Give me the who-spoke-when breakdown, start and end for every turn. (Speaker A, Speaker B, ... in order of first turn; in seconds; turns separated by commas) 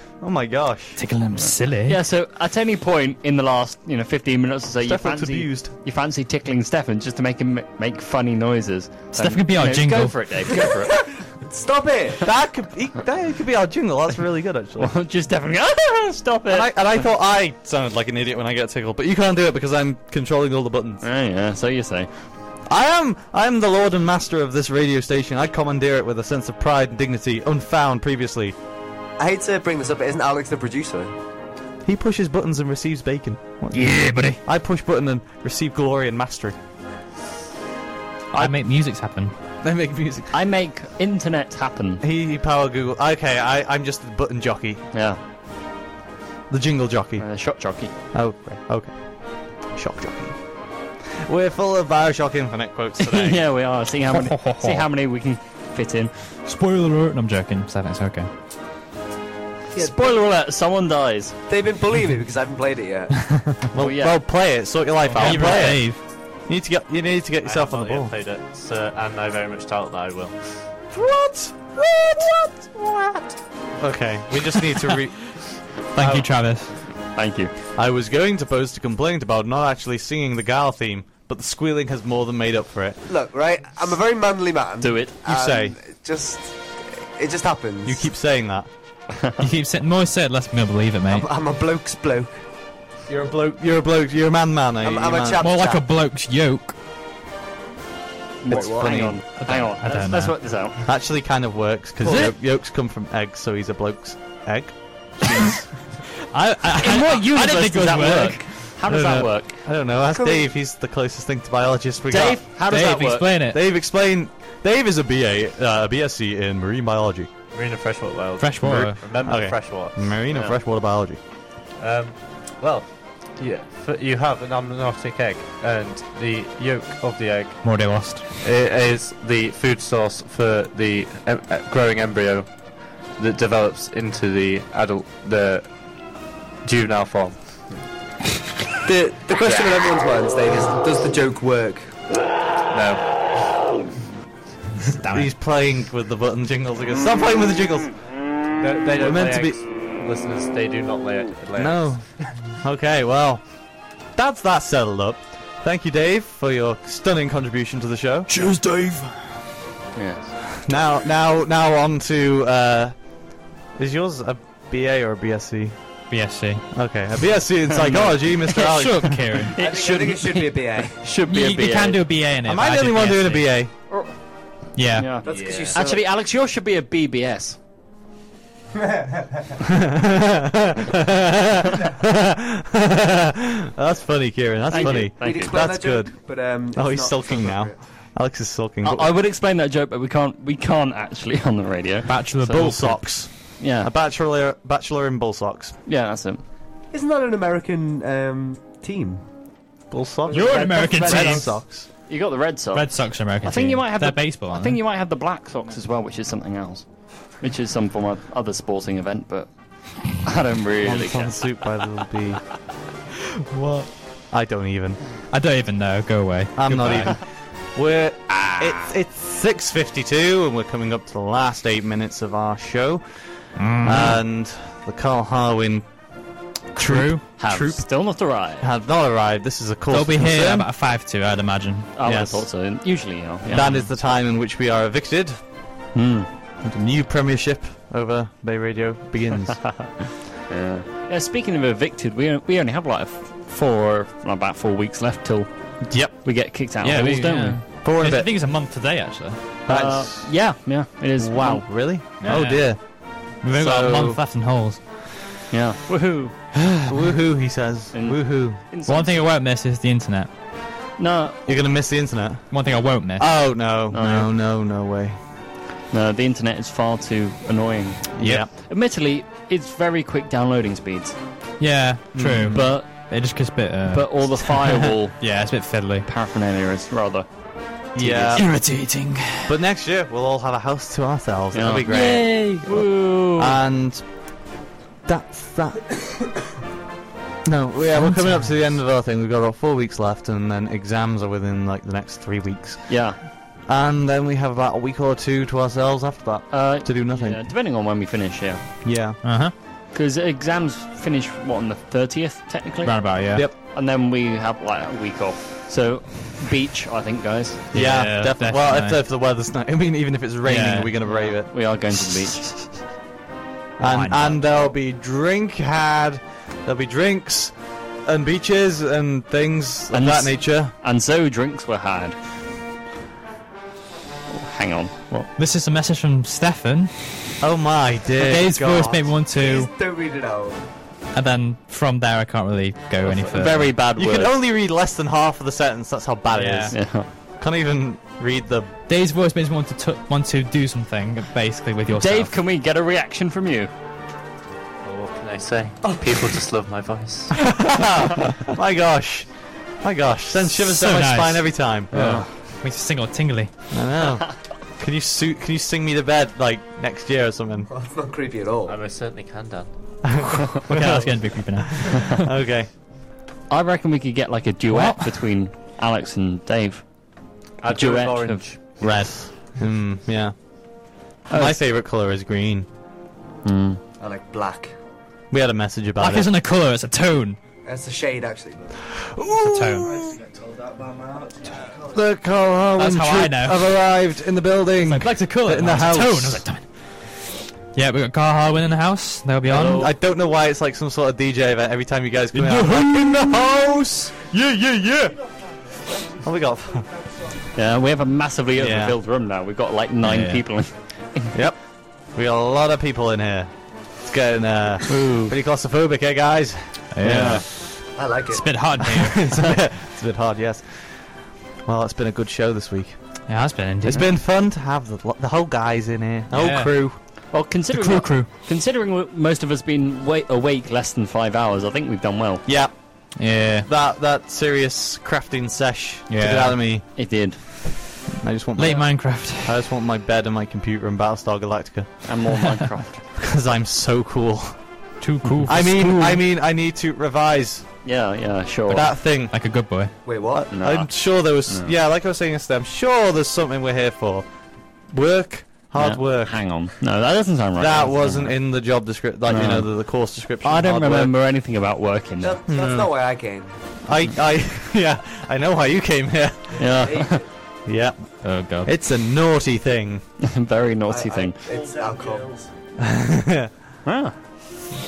Speaker A: 0.2-1.0, Speaker B: 1.0-2.0, Speaker C: 1.8-11.3, Speaker A: 4.8-5.7, Speaker B: 9.2-10.6, Speaker D: 11.1-12.3, Speaker A: 12.2-14.9, Speaker C: 14.8-16.9, Speaker A: 16.5-21.0, Speaker C: 21.0-22.1, Speaker A: 22.7-28.6, Speaker D: 29.2-31.1, Speaker A: 31.9-36.6, Speaker B: 33.7-34.4, Speaker B: 38.3-39.3, Speaker A: 39.6-40.3, Speaker C: 40.3-42.0, Speaker A: 42.0-44.8, Speaker C: 44.9-45.2, Speaker A: 46.5-47.3, Speaker C: 47.2-47.9, Speaker A: 48.1-50.4, Speaker A: 51.2-53.5, Speaker C: 53.0-56.1, Speaker B: 54.1-54.9, Speaker B: 56.5-58.3, Speaker D: 59.7-60.1, Speaker C: 59.8-61.4, Speaker D: 61.5-63.4, Speaker A: 63.7-68.1, Speaker C: 63.8-64.2, Speaker C: 65.2-65.8, Speaker B: 65.2-66.0, Speaker E: 67.4-70.7, Speaker A: 70.9-73.2, Speaker A: 73.8-76.3, Speaker B: 75.9-76.8, Speaker C: 77.1-77.5, Speaker A: 77.8-83.0, Speaker D: 83.1-88.0, Speaker C: 84.8-85.2, Speaker A: 85.2-85.8, Speaker A: 87.8-88.7, Speaker B: 89.4-91.3, Speaker D: 91.1-92.3, Speaker A: 93.1-95.4, Speaker D: 94.8-95.8, Speaker B: 95.4-96.8, Speaker C: 98.4-100.8, Speaker D: 98.5-98.9, Speaker A: 98.5-99.2, Speaker B: 99.4-100.3, Speaker A: 100.8-105.7, Speaker B: 102.0-102.3, Speaker B: 106.3-108.6, Speaker C: 106.8-109.6, Speaker A: 108.9-112.4, Speaker D: 110.1-110.5, Speaker C: 112.1-113.3, Speaker B: 112.6-113.6, Speaker A: 113.5-117.3, Speaker E: 117.5-120.2, Speaker B: 118.4-119.0, Speaker A: 118.6-121.2, Speaker C: 120.3-120.6, Speaker E: 121.8-137.8, Speaker B: 127.6-128.2, Speaker D: 138.8-141.9, Speaker E: 139.4-139.8, Speaker E: 142.7-143.6, Speaker B: 145.0-145.3, Speaker A: 145.1-148.2, Speaker E: 148.6-152.0, Speaker A: 149.0-149.6, Speaker A: 151.6-153.4, Speaker A: 154.1-158.3, Speaker B: 158.3-159.2, Speaker C: 159.9-160.3, Speaker A: 160.6-163.0, Speaker A: 163.8-165.8, Speaker B: 166.1-166.7, Speaker A: 166.7-169.4, Speaker C: 167.7-168.6, Speaker B: 168.5-169.5, Speaker C: 169.5-172.0, Speaker D: 169.6-171.0, Speaker B: 171.3-173.5, Speaker A: 172.4-173.7, Speaker C: 173.9-177.6, Speaker B: 174.8-175.1, Speaker D: 175.2-176.0, Speaker E: 175.3-175.8, Speaker A: 179.7-189.1, Speaker C: 184.7-185.6, Speaker D: 184.8-187.8, Speaker C: 188.8-192.2, Speaker B: 192.1-193.2, Speaker A: 192.4-195.8, Speaker C: 193.6-193.9, Speaker C: 195.9-196.4, Speaker D: 196.9-199.2, Speaker A: 199.9-201.9, Speaker D: 200.3-201.6, Speaker B: 200.3-201.7, Speaker C: 202.1-211.6, Speaker B: 202.7-204.8, Speaker A: 210.8-212.5, Speaker A: 214.2-215.2, Speaker B: 215.3-217.2, Speaker A: 216.6-223.1, Speaker B: 223.6-224.2, Speaker A: 223.8-225.9, Speaker A: 226.7-228.1, Speaker B: 226.8-227.3, Speaker C: 227.4-228.7, Speaker A: 228.6-230.7, Speaker B: 229.9-231.9, Speaker C: 232.0-233.8, Speaker A: 232.0-232.5, Speaker A: 233.5-235.4, Speaker B: 233.6-233.8, Speaker C: 235.9-236.3, Speaker A: 236.6-240.0, Speaker C: 240.5-247.6, Speaker A: 245.9-246.1, Speaker B: 246.8-249.6, Speaker A: 247.8-248.3, Speaker A: 249.7-250.3, Speaker C: 249.7-251.7, Speaker A: 251.2-254.2, Speaker B: 252.2-254.8, Speaker C: 255.5-256.5, Speaker A: 256.9-258.6, Speaker C: 257.9-259.2, Speaker B: 258.9-260.3, Speaker C: 261.0-261.4, Speaker A: 261.5-265.2, Speaker B: 262.5-263.5, Speaker C: 263.9-264.3, Speaker C: 265.9-271.2, Speaker A: 268.2-268.5, Speaker B: 268.2-268.5, Speaker B: 271.6-276.1, Speaker A: 272.1-272.7, Speaker C: 272.5-273.2, Speaker C: 273.9-275.4, Speaker C: 276.1-278.4, Speaker A: 277.9-278.6, Speaker B: 278.3-279.5, Speaker A: 279.5-284.2, Speaker C: 281.5-283.6, Speaker B: 282.1-283.0, Speaker A: 285.1-286.0, Speaker A: 287.4-297.4, Speaker B: 287.9-288.5, Speaker C: 292.9-293.2, Speaker C: 296.5-298.6, Speaker A: 298.8-299.2, Speaker B: 299.2-299.5, Speaker C: 299.9-307.7, Speaker B: 302.8-303.5, Speaker B: 307.7-309.0, Speaker A: 307.7-311.8, Speaker B: 310.4-310.9, Speaker C: 311.0-312.7, Speaker A: 313.8-320.7, Speaker B: 313.8-314.4, Speaker C: 319.9-322.2, Speaker C: 324.3-325.3, Speaker B: 325.4-327.4, Speaker A: 327.4-329.1, Speaker B: 328.1-329.7, Speaker D: 329.0-330.6, Speaker B: 331.1-333.8, Speaker C: 333.3-334.3, Speaker A: 333.3-338.7, Speaker B: 336.3-336.8, Speaker C: 336.7-337.1, Speaker B: 338.9-342.3, Speaker C: 341.9-343.7, Speaker E: 344.8-347.4, Speaker A: 347.4-349.3, Speaker A: 349.8-351.9, Speaker B: 350.5-353.5, Speaker C: 351.9-352.2, Speaker A: 353.7-357.7, Speaker D: 357.7-358.8, Speaker E: 358.7-359.7, Speaker A: 360.0-362.7, Speaker B: 360.5-362.3, Speaker C: 363.5-367.0, Speaker B: 364.7-365.3, Speaker E: 367.6-369.1, Speaker C: 367.6-368.6, Speaker A: 368.8-370.4, Speaker A: 371.3-372.7, Speaker C: 373.4-373.8, Speaker D: 374.0-374.7, Speaker A: 375.3-376.3, Speaker B: 376.0-377.4, Speaker D: 377.6-378.8, Speaker A: 379.0-380.2, Speaker B: 379.3-380.1, Speaker D: 380.6-381.9, Speaker A: 381.9-386.4, Speaker B: 382.8-383.7, Speaker B: 384.8-389.9, Speaker C: 389.5-389.9, Speaker A: 389.5-395.2, Speaker B: 392.3-393.4, Speaker A: 396.1-396.9, Speaker C: 397.6-401.4, Speaker A: 398.6-399.0, Speaker B: 400.0-400.4, Speaker A: 401.3-407.4, Speaker C: 404.9-405.3, Speaker B: 406.9-409.4, Speaker C: 407.0-407.4, Speaker D: 408.0-408.5, Speaker A: 408.8-413.0, Speaker B: 413.3-414.1, Speaker A: 413.9-417.0, Speaker B: 416.3-417.2, Speaker C: 417.3-422.5, Speaker B: 417.7-418.3, Speaker A: 422.5-426.9, Speaker B: 423.2-423.7, Speaker B: 426.1-426.6, Speaker C: 426.9-427.4, Speaker A: 428.2-432.1, Speaker B: 428.6-429.5, Speaker C: 432.1-433.0, Speaker A: 433.2-434.6, Speaker B: 435.0-436.2, Speaker A: 435.5-437.7, Speaker C: 437.8-438.9, Speaker A: 438.7-439.4, Speaker B: 439.2-439.9, Speaker D: 440.1-440.5, Speaker A: 440.3-444.3, Speaker C: 440.5-441.7, Speaker A: 444.9-446.4, Speaker C: 445.8-448.4, Speaker A: 447.6-451.1, Speaker C: 449.3-449.8, Speaker C: 450.4-452.4, Speaker D: 452.2-453.5, Speaker A: 452.5-452.9, Speaker A: 453.9-456.6, Speaker D: 456.6-457.3, Speaker C: 456.6-457.2, Speaker A: 457.7-460.1, Speaker B: 458.2-458.7, Speaker C: 460.2-461.4, Speaker D: 460.9-462.5, Speaker A: 462.8-463.5, Speaker C: 463.9-464.1